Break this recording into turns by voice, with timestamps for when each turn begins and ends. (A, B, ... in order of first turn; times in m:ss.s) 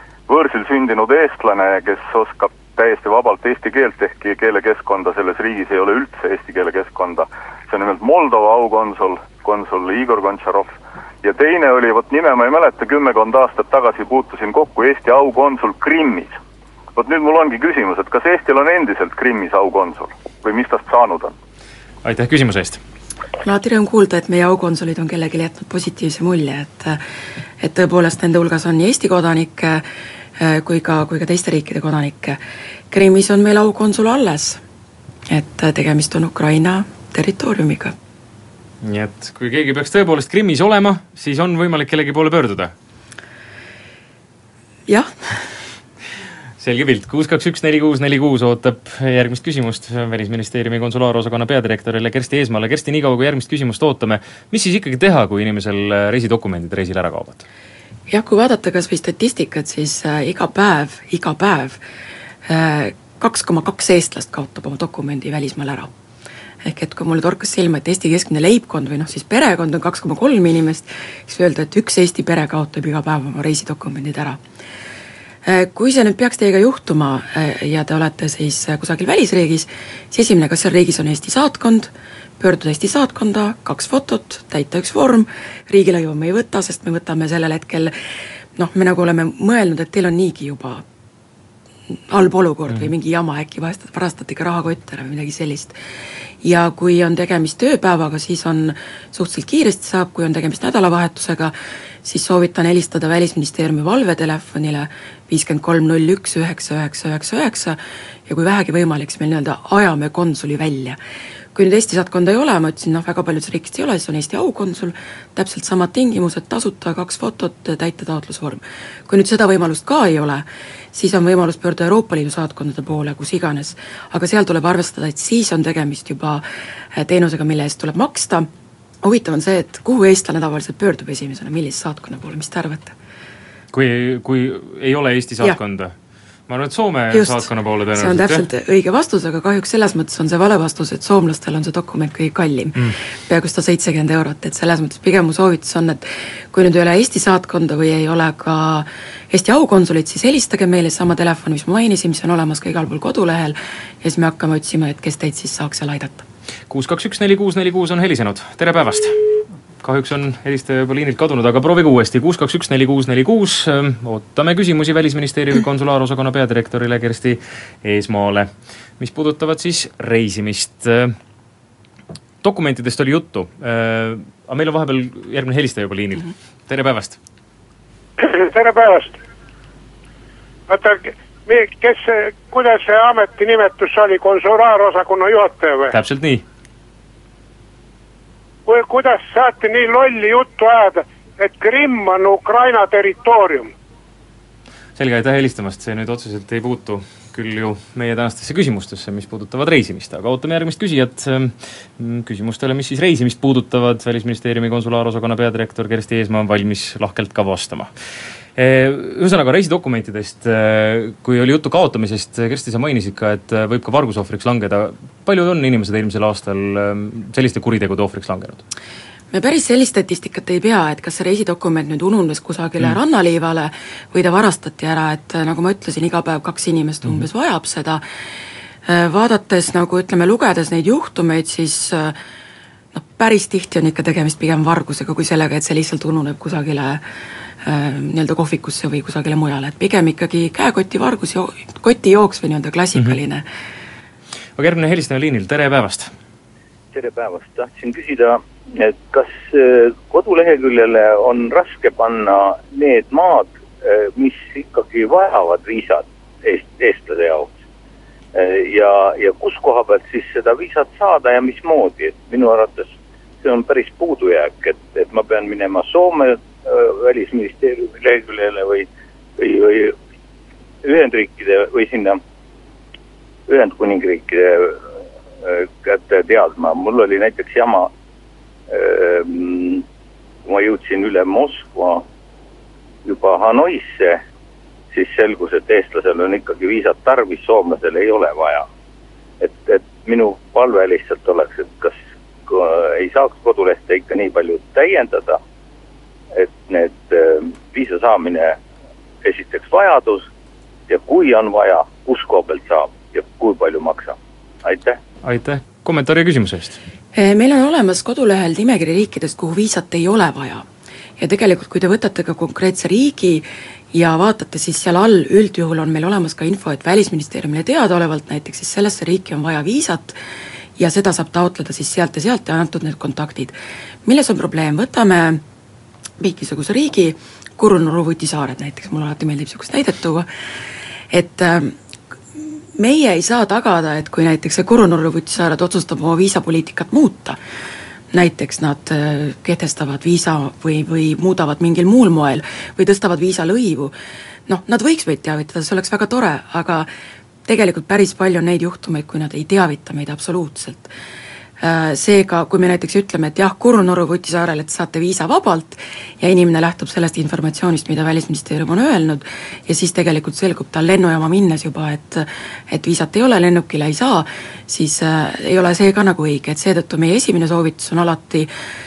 0:00.3-0:16.4 A
0:17.0-0:21.3 A
0:22.0-0:22.8 B
0:23.4-0:27.0 C
0:27.6-0:29.9 C
0:30.4-0:32.4 C
0:32.9-0:34.6 C
0:35.3-0:38.0 C
0:38.8-0:42.7 B
0:44.9-0:45.3 C
0:46.6-0:57.4 B
0:58.1-1:01.8 C
1:02.5-1:05.9 C
1:06.6-1:14.4 C
1:15.5-1:27.9 C
1:28.6-1:30.8 C
1:32.1-1:35.8 C
1:36.4-1:51.0 C
1:51.5-2:06.4 C
2:07.0-2:08.5 C
2:09.0-2:12.9 C
2:13.7-2:15.9 B
2:16.5-2:18.4 B
2:17.1-2:36.3 C
2:36.7-2:39.2 B
2:39.8-2:51.2 B
2:52.4-2:57.2 B
2:58.2-2:59.2 D
3:00.7-3:05.9 D
3:05.9-3:06.4 B
3:08.7-3:13.7 D
3:15.0-3:27.9 B
3:28.6-3:38.6 B
3:39.3-3:48.0 C
3:48.9-3:52.2 C
3:52.9-3:57.0 C
3:57.6-4:03.4 C
4:04.6-4:06.1 B
4:06.9-4:17.6 E
4:18.4-4:30.0 E
4:30.8-4:32.2 E
4:33.5-4:34.8 E
4:35.4-4:37.9 E
4:38.7-4:39.8 E
4:40.5-4:42.1 E
4:43.1-4:44.2 E
4:44.9-4:48.7 E
4:49.4-4:55.4 E
4:56.4-4:58.6 E
4:59.2-5:00.3 E
5:00.9-5:05.0 E
5:05.2-5:06.8 B
5:07.2-5:10.7 C
5:11.2-5:20.2 C
5:20.8-5:23.5 C
5:24.1-5:25.4 C
5:26.2-5:30.3 C
5:31.1-5:31.8 C
5:32.8-5:37.4 C
5:38.1-5:43.9 C
5:44.5-5:46.9 C
5:47.5-5:50.9 C
5:51.6-6:08.5 C